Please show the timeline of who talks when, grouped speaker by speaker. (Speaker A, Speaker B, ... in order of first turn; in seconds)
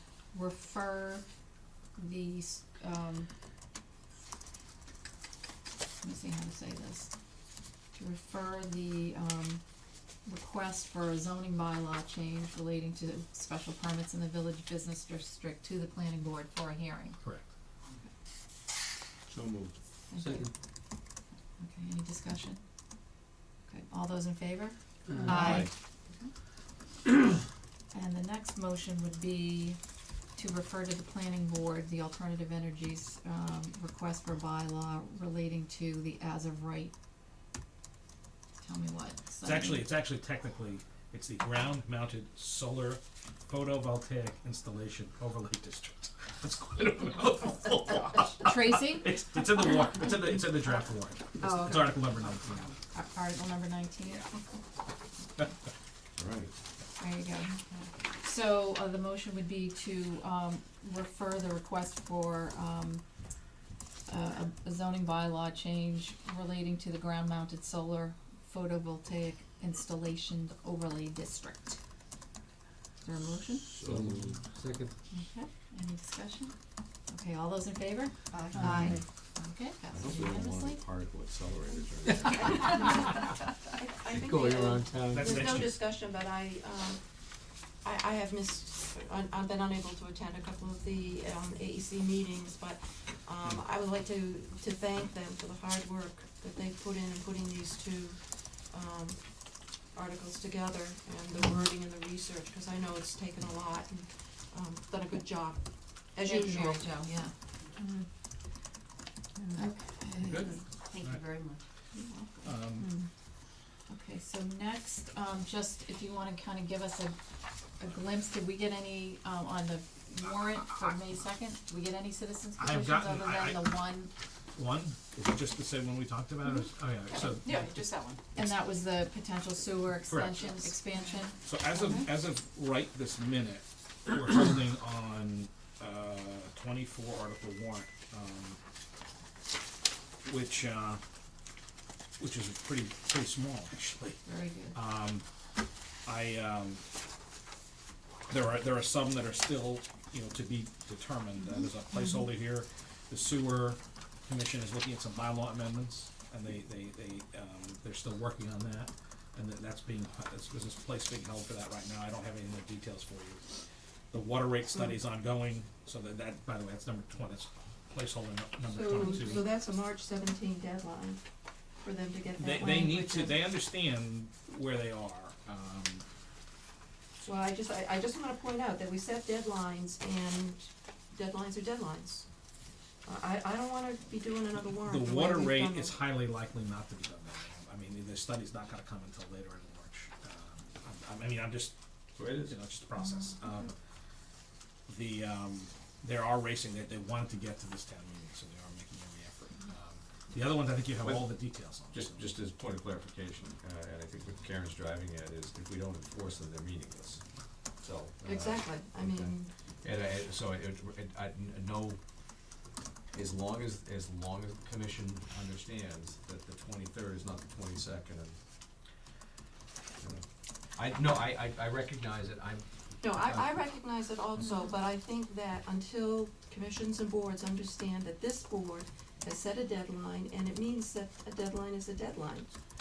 Speaker A: 0.3-1.2, 2.0-3.3, 6.0-7.1, 8.0-9.6, 10.2-17.2, 20.1-20.5, 21.6-22.6, 23.7-25.7, 27.9-29.8, 30.4-36.9, 38.6-39.8, 48.4-49.2, 51.4-52.0, 52.9-54.2, 57.0-57.6, 58.2-63.0, 64.1-71.8, 73.0-73.7, 75.1-76.5, 77.1-80.8, 106.2-107.3, 109.5-110.3, 111.9-112.5, 113.9-117.2, 117.8-124.1, 127.2-127.7, 128.3-132.1, 144.2-144.8, 151.6-152.1
Speaker B: 19.3-19.7, 25.2-25.7, 56.2-56.5, 73.7-74.5, 79.9-82.9, 192.2-192.5, 201.0-201.3, 201.9-207.2, 207.8-212.0, 213.1-218.4, 220.0-223.4
Speaker C: 20.2-20.5, 25.1-25.6, 73.8-74.9, 84.1-85.6
Speaker D: 39.4-52.8, 85.1-85.7, 110.3-111.2, 112.4-112.8, 122.6-123.9, 124.5-128.7, 130.1-130.8, 131.4-138.6, 140.2-141.0, 142.2-144.2, 144.7-145.2, 146.1-146.8, 148.3-163.4, 164.1-169.5, 172.4-176.1, 184.8-191.8, 192.4-193.7, 194.9-202.3
Speaker E: 78.3-79.0, 107.8-108.0, 109.4-110.6, 111.3-111.6
Speaker F: 82.0-87.0, 87.8-106.9, 168.7-171.2, 171.8-173.3, 177.2-182.3, 183.1-186.0, 208.2-209.5, 223.0-232.5